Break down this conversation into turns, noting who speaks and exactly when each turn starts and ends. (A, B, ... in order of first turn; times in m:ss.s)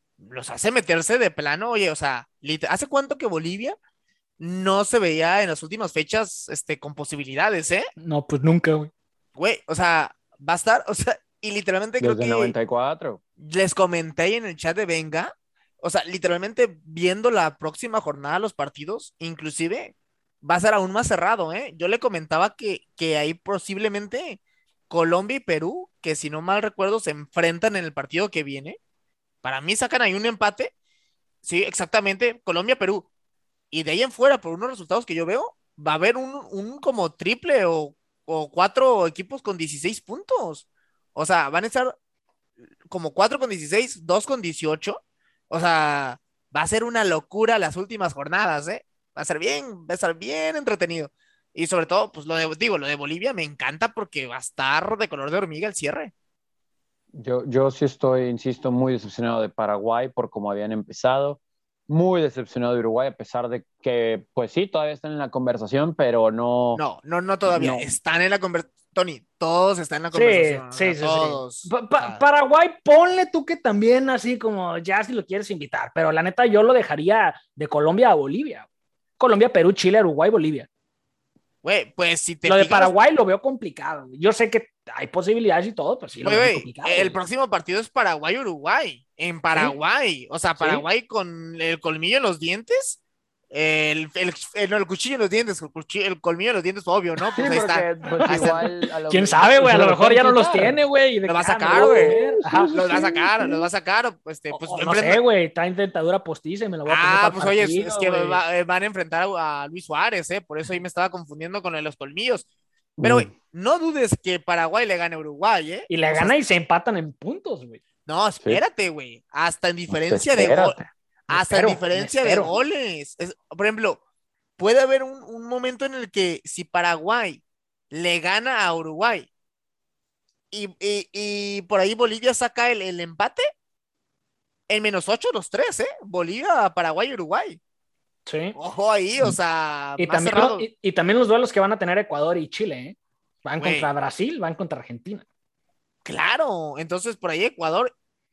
0:00.2-0:03.8 A
0:04.4-0:07.9 A
0:08.0-0:08.9 B
0:09.4-0:12.6 A
0:12.0-0:13.2 C
0:13.4-0:28.8 A
0:29.4-0:30.7 A
0:31.4-0:33.1 A
0:33.7-0:42.0 A
0:42.9-0:56.1 A
0:57.2-1:06.8 C
1:06.8-1:12.2 A
1:07.5-1:07.9 C
1:10.1-1:18.7 B
1:19.2-1:20.7 B
1:21.6-1:22.9 A
1:22.4-1:27.2 B
1:26.2-1:38.6 A
1:30.6-1:30.8 C
1:37.4-1:40.8 C
1:38.1-1:43.0 B
1:41.3-1:45.2 A
1:41.7-1:43.7 C
1:44.5-1:48.4 B
1:46.9-1:52.5 A
1:53.0-1:53.3 C
1:53.0-1:56.4 A
1:55.9-1:57.8 B
1:58.1-2:00.8 A
1:59.9-2:00.9 C
2:01.3-2:04.0 A
2:01.3-2:02.5 B
2:04.6-2:09.3 A
2:10.5-2:13.5 A
2:14.7-2:17.6 A
2:18.3-2:18.6 B
2:18.6-2:20.6 A
2:20.0-2:25.3 B
2:23.6-2:23.9 A
2:26.0-2:27.9 A